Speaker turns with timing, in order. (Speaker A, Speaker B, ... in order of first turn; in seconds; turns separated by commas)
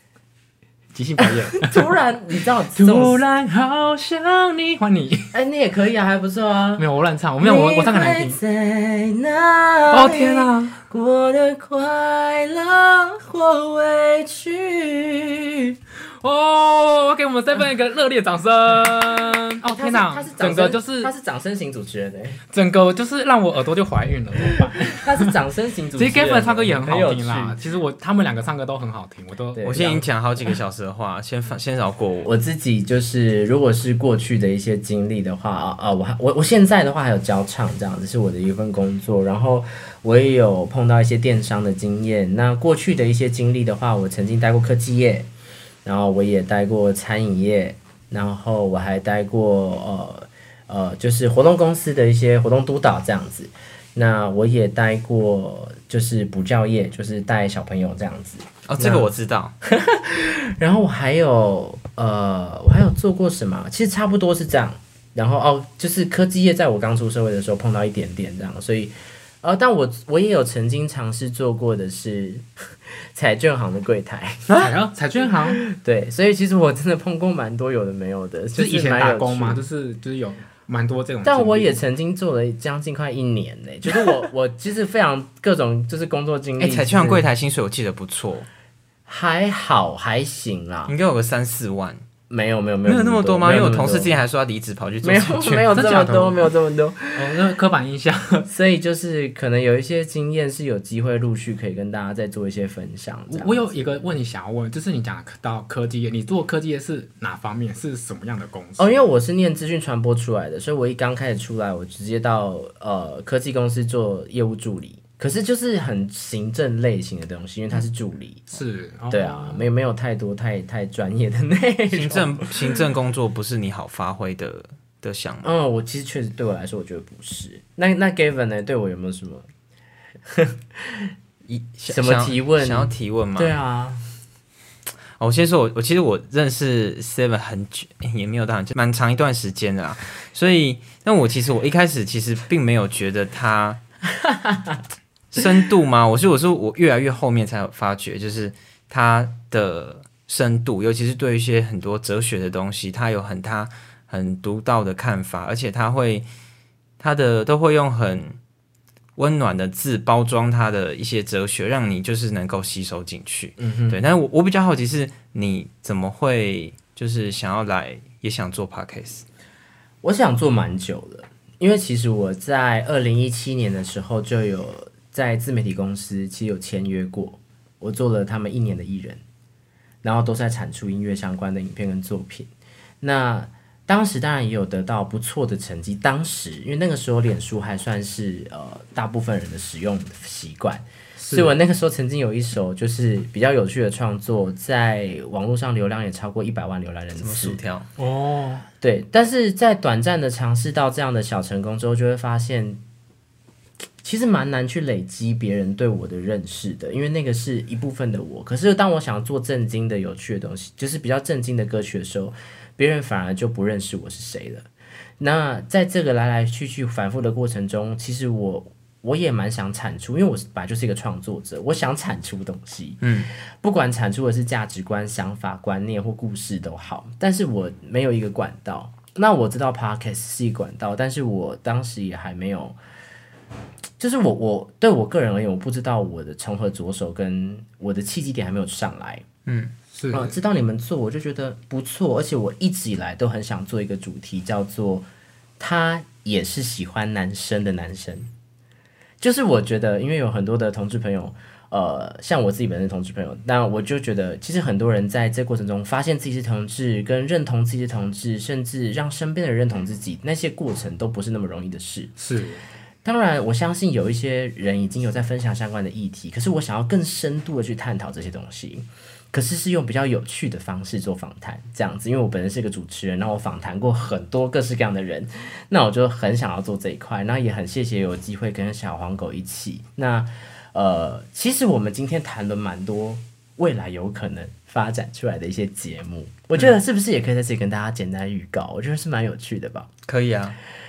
Speaker A: 0.9-1.9, Speaker B: 1.2-3.2, Speaker A: 2.8-5.3, Speaker B: 5.3-6.9, Speaker A: 6.8-8.4, Speaker B: 7.4-15.7, Speaker A: 9.9-10.8, Speaker A: 16.2-21.1, Speaker B: 19.6-22.4, Speaker A: 22.5-25.3, Speaker B: 24.4-27.6, Speaker A: 25.9-29.8, Speaker B: 29.5-30.1, Speaker C: 29.6-32.3, Speaker B: 32.2-45.3, Speaker B: 45.9-59.1, Speaker C: 58.7-59.5, Speaker B: 59.6-72.5, Speaker B: 73.1-74.5, Speaker A: 74.5-75.6, Speaker B: 75.5-79.6, Speaker A: 78.5-81.8, Speaker B: 81.2-87.3, Speaker C: 86.6-88.5, Speaker B: 89.1-91.0, Speaker C: 90.9-92.0, Speaker B: 92.3-94.2, Speaker C: 92.8-95.9, Speaker B: 95.0-97.5, Speaker A: 95.7-96.5, Speaker A: 97.2-98.5, Speaker B: 98.5-104.1, Speaker A: 103.3-109.0, Speaker B: 108.8-118.5, Speaker A: 118.5-119.7, Speaker B: 119.1-122.8, Speaker C: 121.9-125.5, Speaker B: 125.4-129.5, Speaker B: 130.3-131.1, Speaker C: 131.5-133.5, Speaker B: 131.9-134.0, Speaker C: 135.2-143.8, Speaker C: 145.3-156.3, Speaker C: 157.0-158.4, Speaker C: 159.2-169.2, Speaker B: 163.6-164.0, Speaker B: 170.0-179.2, Speaker B: 180.0-182.5, Speaker B: 183.0-197.6, Speaker A: 191.2-191.6, Speaker C: 197.2-197.9, Speaker A: 198.0-198.7, Speaker B: 198.8-202.8, Speaker B: 204.0-214.7, Speaker B: 215.2-223.1, Speaker C: 223.0-223.3, Speaker B: 223.6-232.8, Speaker B: 234.0-239.2, Speaker C: 239.5-239.7, Speaker A: 239.9-240.3, Speaker B: 240.1-245.1, Speaker B: 245.6-248.3, Speaker B: 249.2-262.1, Speaker A: 262.2-262.7, Speaker B: 263.0-289.9, Speaker C: 290.1-290.6